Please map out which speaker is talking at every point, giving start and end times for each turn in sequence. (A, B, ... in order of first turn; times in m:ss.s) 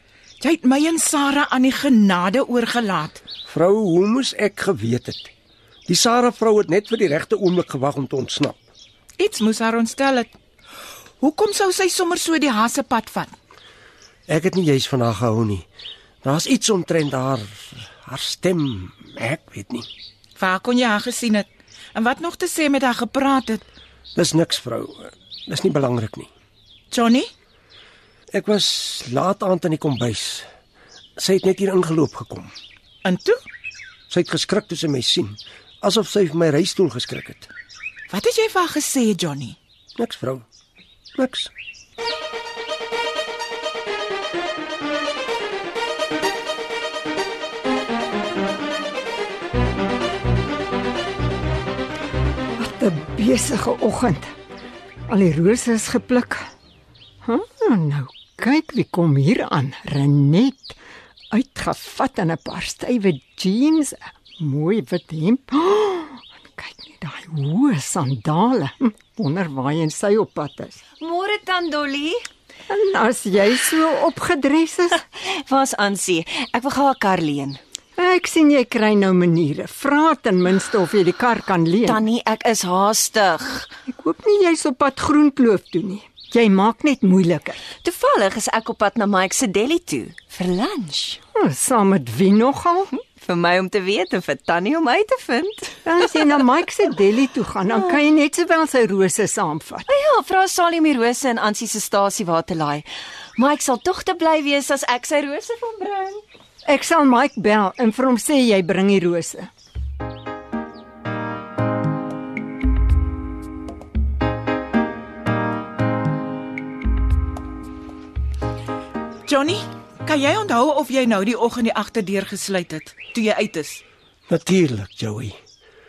0:00.4-0:03.2 A
0:03.5-0:05.3 B
0:05.9-0:08.6 B
0:09.2-0:10.3 A
0:11.2-0:13.3 A
0:14.3-0:15.7 B
0:16.2-0:19.9 B
0:20.4-0:23.6 A
0:24.2-0:26.3 B
0:26.9-0:27.3 A
0:28.3-0:30.5 B
0:31.2-0:32.5 B
0:33.0-0:33.4 A
0:34.1-0:37.5 B
0:38.1-0:39.6 A
0:40.0-0:40.4 B
0:41.2-0:41.5 B
0:52.6-0:54.3 C
0:55.1-0:56.5 C
0:57.2-1:00.8 C
1:01.3-1:10.8 C
1:11.0-1:12.2 D
1:12.7-1:15.0 C
1:15.1-1:17.6 D
1:18.0-1:22.1 C
1:21.8-1:23.7 D
1:23.9-1:27.6 C
1:27.8-1:31.2 D
1:31.4-1:32.9 C
1:33.0-1:35.9 D
1:35.8-1:39.9 C
1:39.9-1:42.9 D
1:43.4-1:46.2 D
1:46.6-1:49.5 C
1:59.3-2:03.8 A
2:04.3-2:05.4 B